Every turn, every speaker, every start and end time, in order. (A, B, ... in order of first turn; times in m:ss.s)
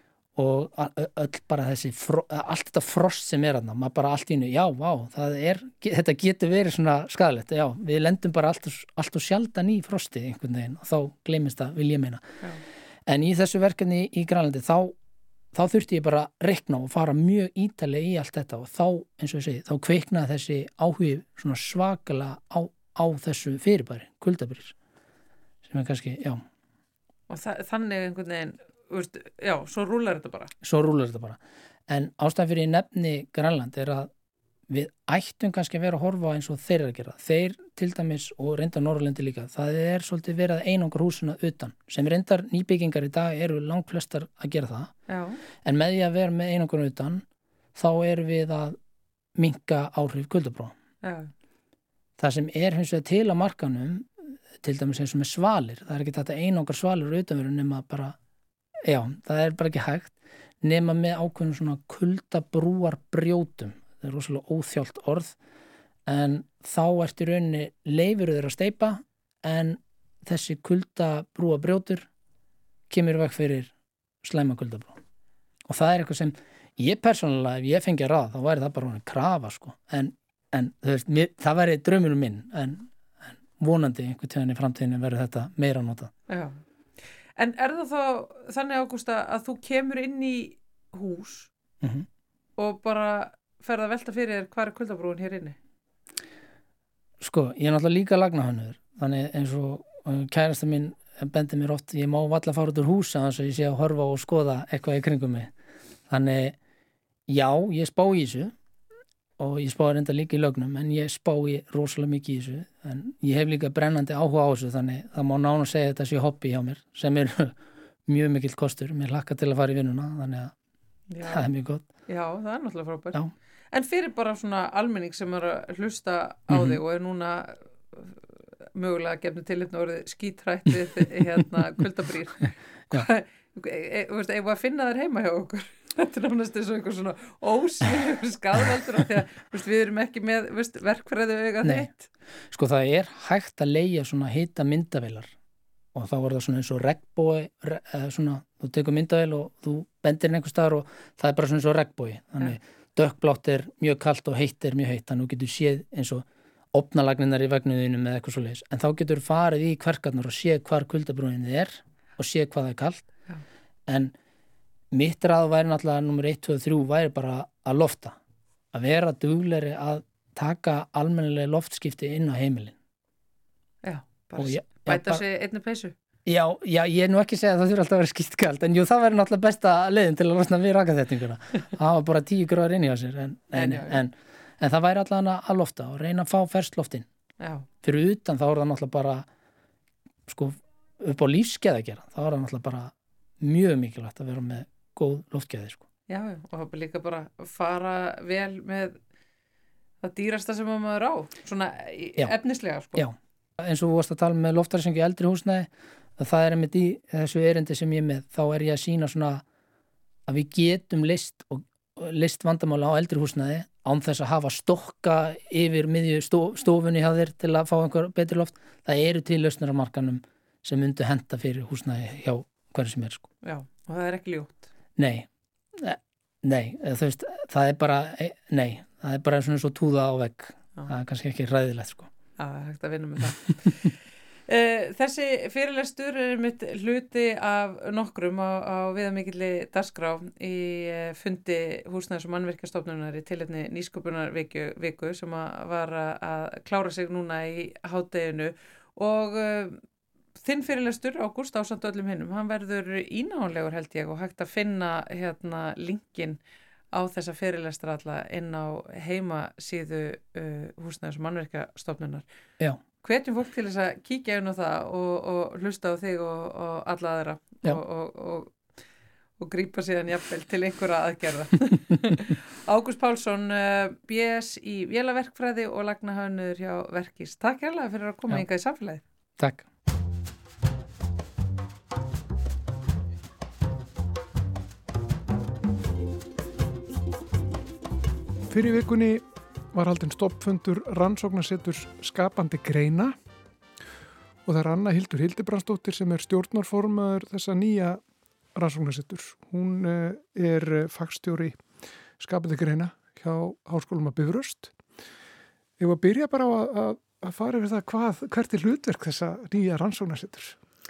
0:00.4-0:12.3 A
0:13.1-0:15.0 A
0:15.5-0:24.8 A
0:25.6-0:26.4 A
0:27.3-0:30.5 B
0:30.6-0:34.1 A
0:34.7-0:44.9 A
0:45.1-0:45.4 B
0:45.6-0:48.8 A
0:49.4-0:50.8 A
0:51.0-0:51.3 B
0:52.2-0:58.2 A
0:58.8-1:05.4 A
1:06.1-1:12.1 A
1:12.9-1:13.7 A
1:14.2-1:15.0 A
1:15.7-1:26.1 A
1:26.3-1:26.5 B
1:27.4-1:31.5 B
1:32.6-1:35.6 B
1:37.2-1:45.5 A
1:46.1-1:46.6 A
1:47.3-1:48.5 A
1:49.4-1:57.6 A
1:58.1-2:00.5 A
2:01.1-2:01.5 B
2:01.2-2:01.8 A
2:02.1-2:03.2 B
2:03.7-2:08.2 B
2:06.5-2:06.8 A
2:08.8-2:22.0 B
2:21.6-2:21.9 A
2:22.5-2:25.3 A
2:25.9-2:43.1 A
2:43.9-2:44.1 A
2:44.9-2:48.2 A
2:48.7-2:52.8 A
2:53.8-2:55.9 B
2:54.4-2:55.2 A
2:56.3-3:07.1 A
3:03.6-3:04.0 B
3:07.8-3:09.3 A
3:10.3-3:15.8 A
3:16.1-3:19.0 B
3:20.0-3:23.1 B
3:23.0-3:29.4 A
3:30.3-3:43.3 A
3:43.4-3:44.7 B
3:45.0-3:52.1 A
3:52.4-3:54.0 B
3:54.5-4:09.8 B
4:10.4-4:16.4 B
4:16.9-4:22.2 B
4:23.0-4:28.6 B
4:29.4-4:39.0 B
4:39.4-4:39.6 A
4:48.5-4:53.1 C
4:54.5-4:58.0 C
4:58.6-5:01.6 C
5:02.2-5:04.7 C
5:05.8-5:10.6 C